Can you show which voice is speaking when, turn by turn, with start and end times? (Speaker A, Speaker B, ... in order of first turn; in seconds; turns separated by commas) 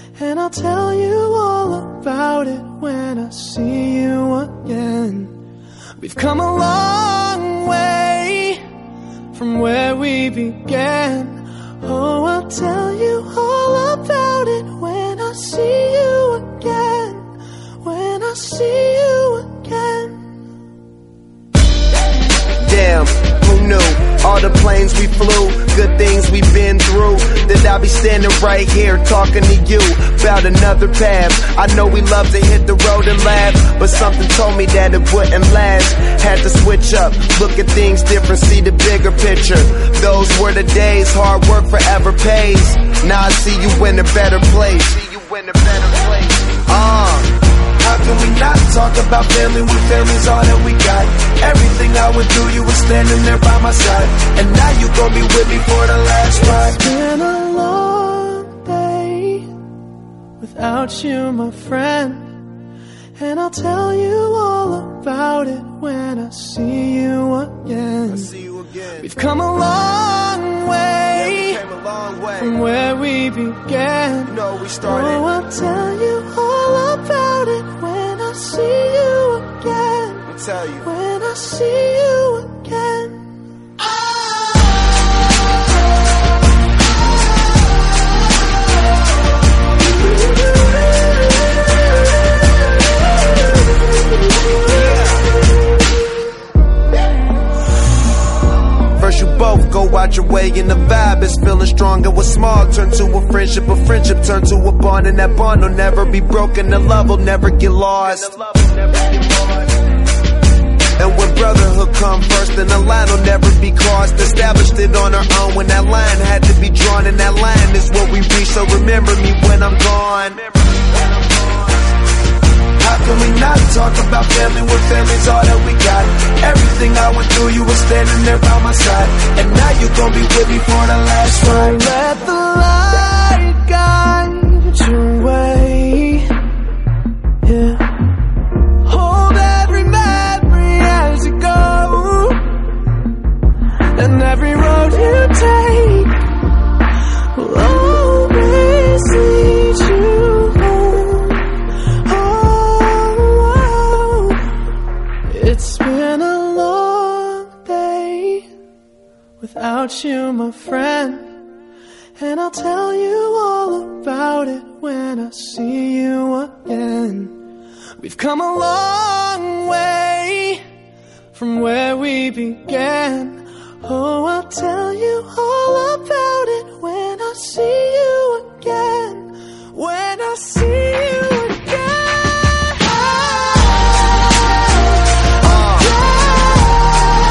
Speaker A: 0.1-5.3, Speaker A: 6.0-8.6, Speaker A: 9.3-17.3, Speaker A: 17.8-20.2, Speaker B: 22.6-56.8, Speaker A: 56.5-59.5, Speaker A: 60.4-62.3, Speaker A: 63.2-68.4, Speaker B: 68.1-69.1, Speaker A: 68.9-71.6, Speaker B: 71.1-72.6, Speaker A: 72.3-83.2, Speaker B: 74.2-75.2, Speaker B: 80.3-80.8, Speaker B: 99.0-109.4, Speaker B: 111.0-121.7, Speaker B: 122.8-131.8, Speaker A: 131.4-136.3, Speaker A: 137.4-137.9, Speaker A: 138.8-142.5, Speaker A: 143.9-146.2, Speaker A: 147.3-151.5, Speaker A: 152.1-154.4, Speaker A: 155.3-158.5, Speaker A: 159.4-161.3, Speaker A: 162.2-167.4, Speaker A: 168.0-170.6, Speaker A: 171.3-182.2, Speaker A: 182.9-183.4, Speaker A: 185.4-186.9, Speaker B: 185.5-185.9